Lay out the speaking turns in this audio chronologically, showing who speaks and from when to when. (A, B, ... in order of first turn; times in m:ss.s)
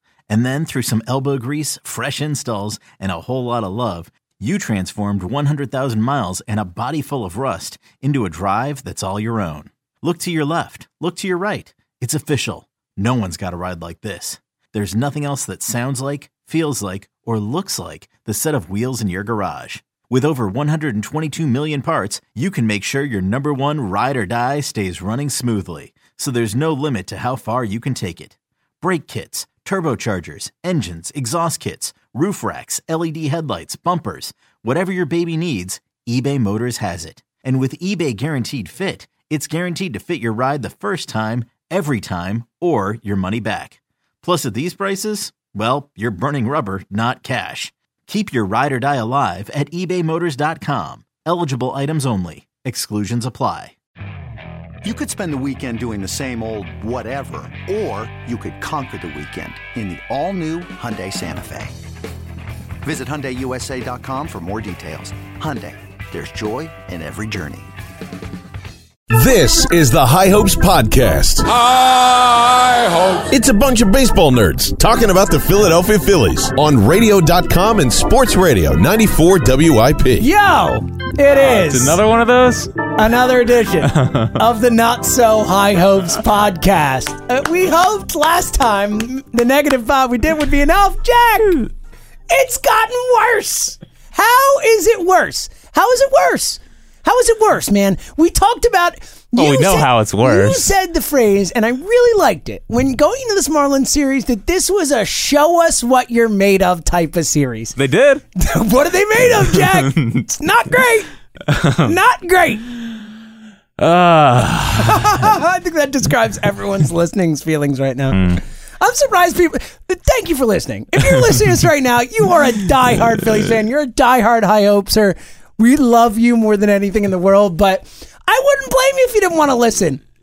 0:00.3-0:53.7 A
0:54.8-1:01.8 B
1:02.8-1:07.7 B
1:09.1-1:20.3 C
1:20.2-1:22.0 D
1:21.3-1:22.9 E
1:23.0-1:31.7 D
1:23.8-1:24.4 E
1:32.3-1:47.8 D
1:39.4-1:40.7 E
1:47.8-1:48.2 E
1:48.3-1:51.1 D
1:49.2-1:50.3 E
1:51.4-1:51.9 E
1:51.8-1:52.6 D
1:53.8-1:55.3 E
1:54.8-2:10.0 D
1:58.1-1:58.4 E